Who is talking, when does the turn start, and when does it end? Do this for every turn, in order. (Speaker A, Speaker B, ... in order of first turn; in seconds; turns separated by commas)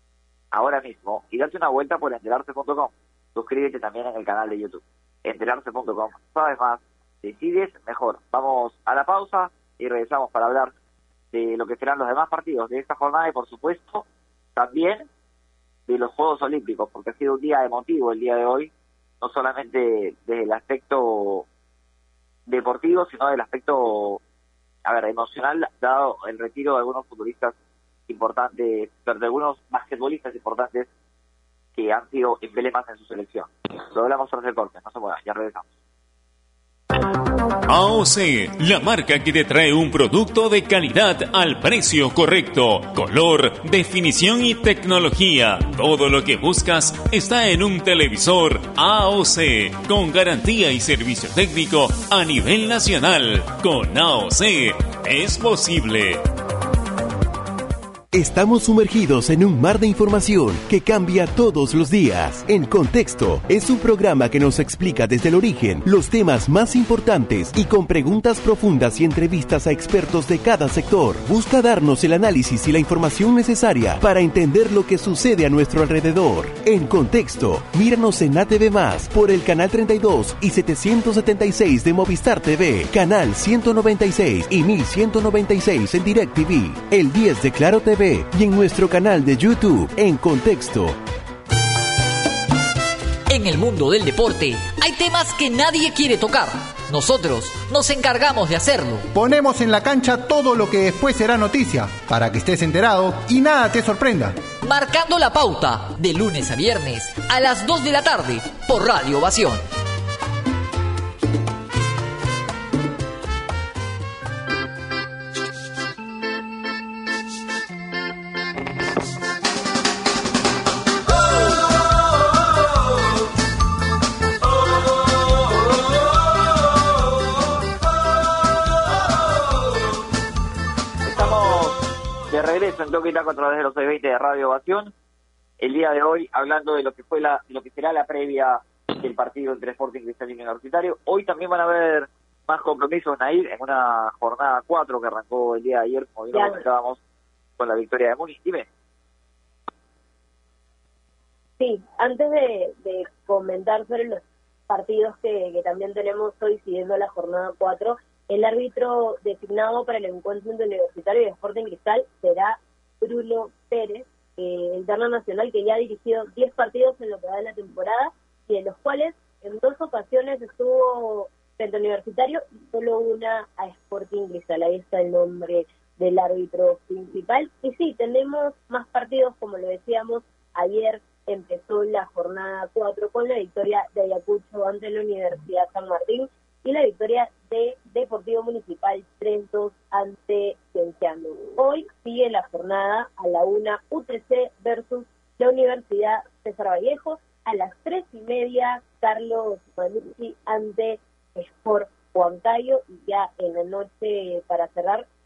Speaker A: 0.5-10.7, Speaker A: 11.3-15.1, Speaker A: 15.9-21.5, Speaker A: 22.5-24.2, Speaker A: 24.9-27.6, Speaker A: 28.1-30.9, Speaker A: 31.8-35.7, Speaker B: 37.7-56.2, Speaker C: 58.1-91.0, Speaker D: 93.3-99.1, Speaker E: 99.2-104.4, Speaker D: 104.6-109.6, Speaker A: 131.0-134.9, Speaker A: 135.6-147.0, Speaker F: 146.3-146.6, Speaker A: 147.6-148.7, Speaker F: 151.6-205.1